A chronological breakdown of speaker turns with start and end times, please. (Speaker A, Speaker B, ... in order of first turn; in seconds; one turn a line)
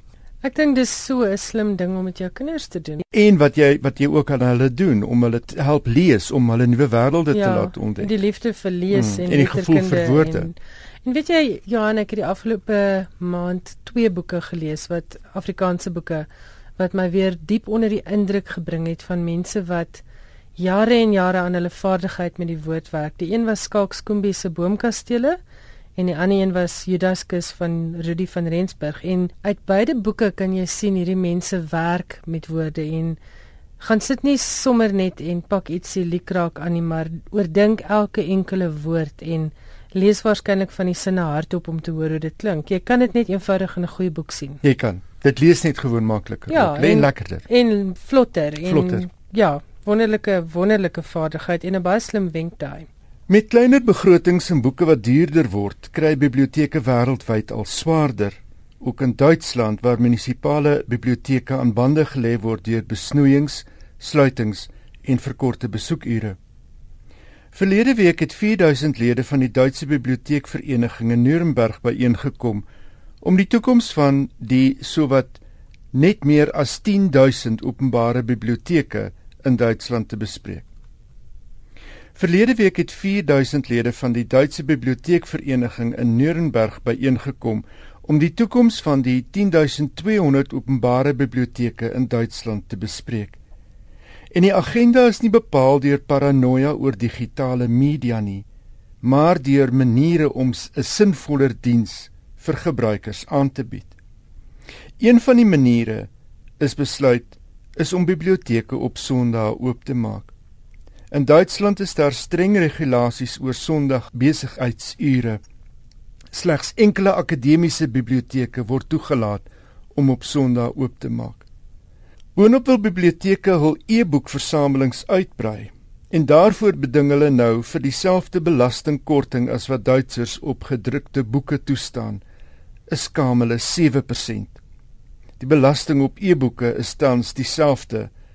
Speaker A: 0.4-3.0
Speaker B: 3.1-8.1
Speaker A: 7.3-20.0
Speaker B: 8.9-10.5
Speaker A: 20.6-25.4
Speaker A: 26.0-33.2
Speaker A: 33.8-44.6
Speaker B: 44.6-47.5
Speaker A: 46.5-52.9
Speaker B: 48.6-49.1
Speaker B: 53.3-66.4
Speaker B: 67.5-72.7
Speaker B: 73.2-75.4
Speaker B: 75.9-80.7
Speaker B: 82.2-93.4
Speaker B: 94.3-98.5
Speaker B: 99.0-103.9
Speaker B: 105.0-106.1
Speaker B: 106.6-110.3
Speaker B: 111.1-115.4
Speaker B: 116.3-121.4
Speaker B: 122.4-132.2
Speaker B: 132.9-134.6
Speaker B: 135.4-138.1